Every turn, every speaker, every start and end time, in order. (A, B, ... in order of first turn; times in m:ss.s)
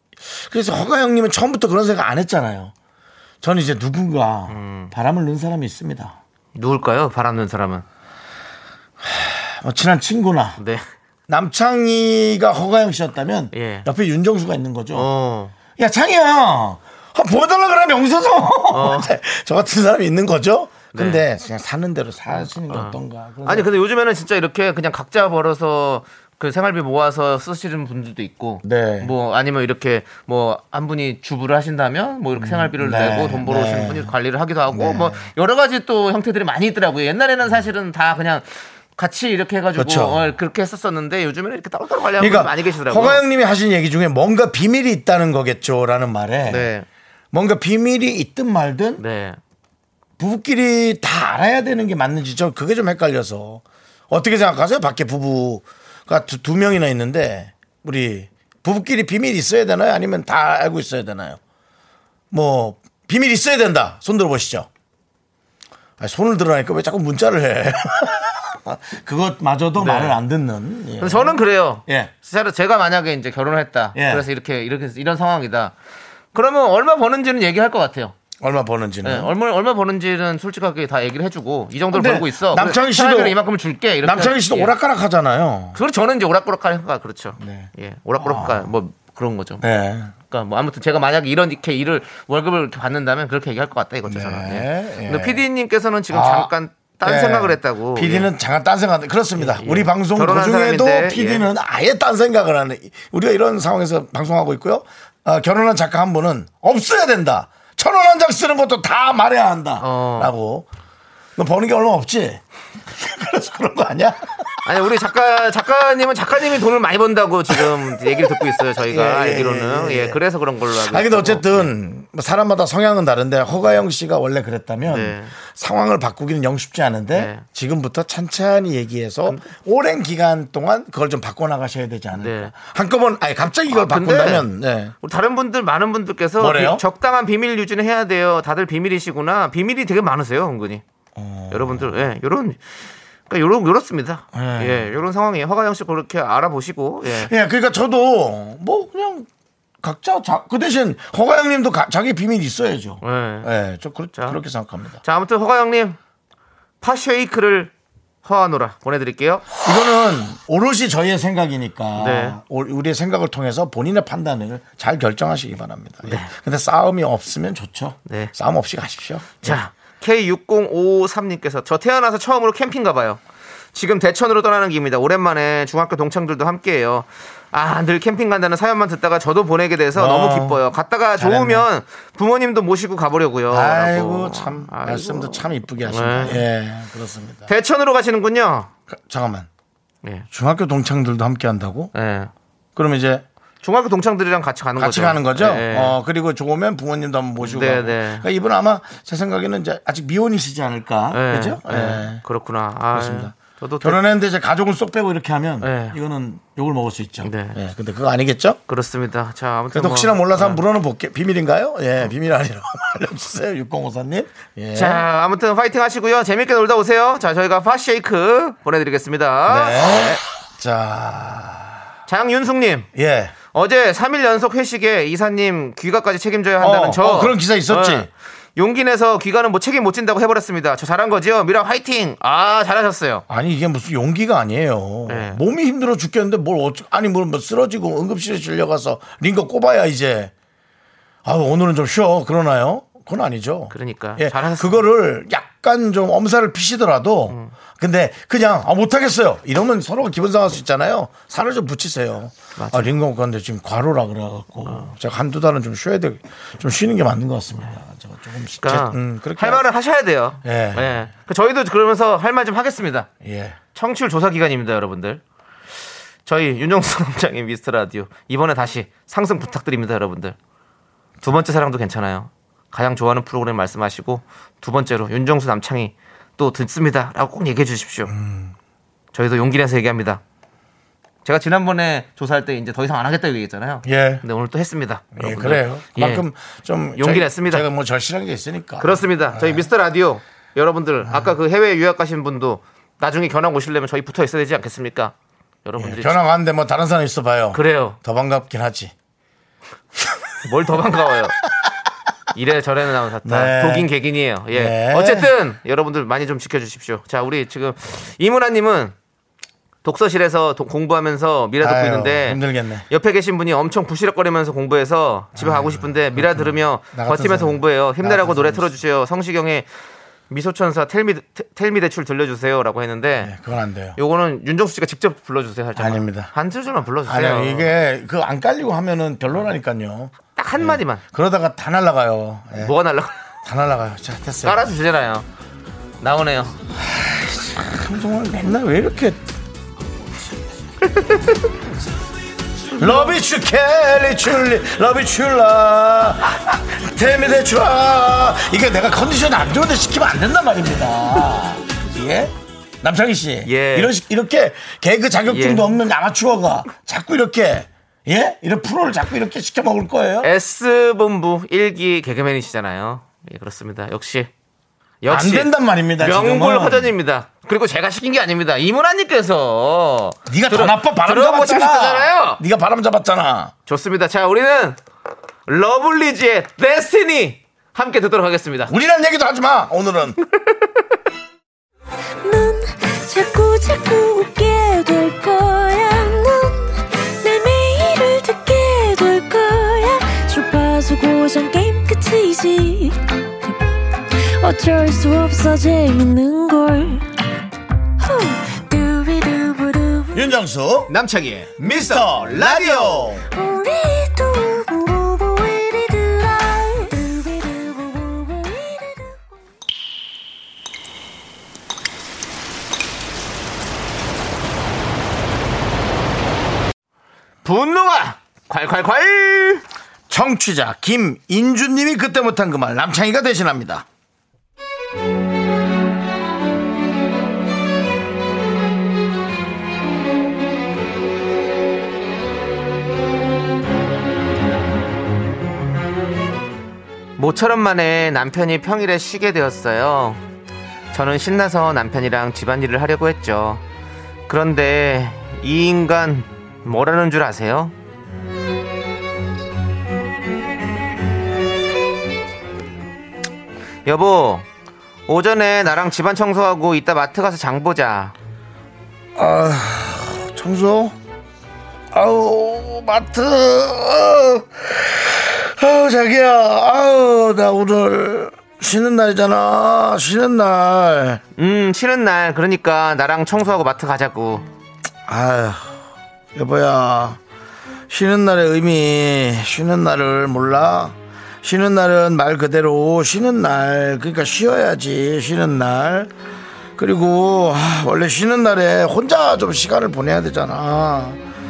0:00.3-0:02.7 A
0:03.4-0:06.2 A
0:04.5-0:04.9 B
0:06.5-0:07.8 B
0:09.0-0:10.6 A
0:10.6-0:10.8 B
0:11.3-0:15.1 A
0:13.5-0:13.8 B
0:14.9-0:15.5 B
0:15.8-0:23.7 A
0:18.7-0:19.1 B
0:20.9-0:21.2 B
0:22.3-0:38.4 B
0:28.6-0:29.1 A
0:32.4-0:34.1 A
0:34.7-0:35.3 A
0:39.0-0:43.2 B
0:39.8-0:40.3 A
0:42.2-0:46.7 A
0:46.5-0:46.8 B
0:47.3-0:49.0 A
0:49.0-0:49.4 B
0:50.2-1:01.4 A
1:02.3-1:04.7 A
1:06.0-1:12.1 A
1:09.8-1:10.2 B
1:11.0-1:15.7 B
1:13.9-1:14.2 A
1:16.3-1:18.1 B
1:18.4-1:19.3 A
1:19.0-1:24.7 B
1:21.9-1:23.4 A
1:24.0-1:25.8 A
1:25.7-1:29.6 B
1:27.4-1:28.7 A
1:29.6-1:30.1 A
1:30.3-1:38.3 B
1:34.0-1:35.4 A
1:36.1-1:50.7 A
1:39.4-1:41.4 B
1:49.8-1:50.3 B
1:51.4-1:54.6 A
1:54.6-2:01.7 B
1:57.5-2:14.9 A
2:04.9-2:05.3 B
2:07.1-2:07.4 B
2:12.2-2:12.5 B
2:13.7-2:14.5 B
2:15.0-2:20.8 B
2:16.4-2:16.8 A
2:21.1-2:22.0 A
2:21.5-2:22.6 B
2:23.3-2:27.3 B
2:24.3-2:24.9 A
2:27.0-2:29.3 A
2:29.8-2:35.0 A
2:33.0-2:33.5 B
2:35.0-2:36.0 B
2:36.8-2:37.7 B
2:38.2-2:39.5 B
2:39.6-2:49.6 A
2:42.0-2:42.4 B
2:46.0-2:46.3 B
2:48.1-2:48.3 B
2:49.4-2:53.2 B
2:53.7-3:06.4 B
2:59.9-3:00.6 A
3:01.2-3:01.7 A
3:03.5-3:07.5 A
3:07.5-3:08.7 B
3:08.9-3:09.5 A
3:10.3-3:11.9 A
3:11.9-3:12.3 B
3:12.8-3:13.2 A
3:13.6-3:16.0 B
3:14.8-3:22.2 A
3:17.4-3:18.2 B
3:21.1-3:24.0 B
3:22.9-3:28.6 A
3:25.6-3:26.0 B
3:27.2-3:27.6 B
3:28.7-3:30.6 B
3:29.7-3:35.0 A
3:34.7-3:40.2 B
3:39.5-3:41.8 A
3:42.1-3:42.9 B
3:42.9-3:43.3 A
3:43.5-3:53.2 B
3:46.6-3:48.1 A
3:53.3-4:00.3 A
3:55.1-3:55.4 B
4:01.2-4:19.6 A
4:03.7-4:04.8 B
4:07.3-4:07.5 B
4:12.6-4:12.9 B
4:14.6-4:14.9 B
4:18.6-4:23.1 B
4:20.4-4:21.1 A
4:23.2-4:23.6 A
4:23.7-4:25.2 B
4:26.2-4:30.4 B
4:31.2-4:38.1 B
4:38.1-4:38.5 A
4:39.1-4:40.2 B
4:41.2-4:46.2 B
4:43.8-4:44.2 A
4:45.1-4:49.7 A
4:47.0-4:47.7 B
4:48.8-4:55.1 B
4:51.0-4:51.3 A
4:55.6-4:56.2 B
4:55.8-4:58.9 A
4:57.5-4:58.0 B
5:00.4-5:01.4 B
5:02.3-5:08.9 B
5:03.2-5:03.9 A
5:04.5-5:05.3 A
5:09.8-5:19.6 B
5:11.6-5:12.8 A
5:15.4-5:18.8 A
5:20.3-5:23.3 B
5:23.2-5:24.0 A
5:24.0-5:27.7 B
5:25.8-5:26.3 A
5:27.0-5:32.7 A
5:30.4-5:31.0 B
5:32.6-5:33.1 B
5:33.4-5:34.7 A
5:34.4-5:35.2 B
5:36.0-5:36.6 B
5:36.7-5:39.2 A
5:40.9-5:41.4 B
5:42.7-6:00.3 A
5:53.4-5:53.9 B
5:55.3-5:55.7 B
6:00.2-6:04.3 B
6:05.0-6:12.4 B
6:05.1-6:06.9 A
6:10.3-6:13.5 A
6:13.7-6:14.8 B
6:15.5-6:18.7 B
6:18.7-6:20.2 A
6:22.2-6:33.6 C
6:34.1-6:37.1 C
6:38.0-6:40.2 C
6:40.1-6:40.9 A
6:40.9-6:43.2 B
6:41.6-6:43.3 A
6:43.3-6:49.2 C
6:57.4-6:59.6 B
7:00.1-7:03.8 A
7:17.2-7:20.2 B
7:20.9-7:23.6 B
7:24.3-7:27.7 B
7:33.8-7:34.4 B
7:35.1-7:38.1 B
7:39.1-7:40.9 A
7:41.9-7:51.2 A
7:51.4-7:54.4 B
7:55.1-7:55.8 A
7:56.3-7:57.2 A
7:57.9-8:06.1 A
8:06.8-8:11.2 A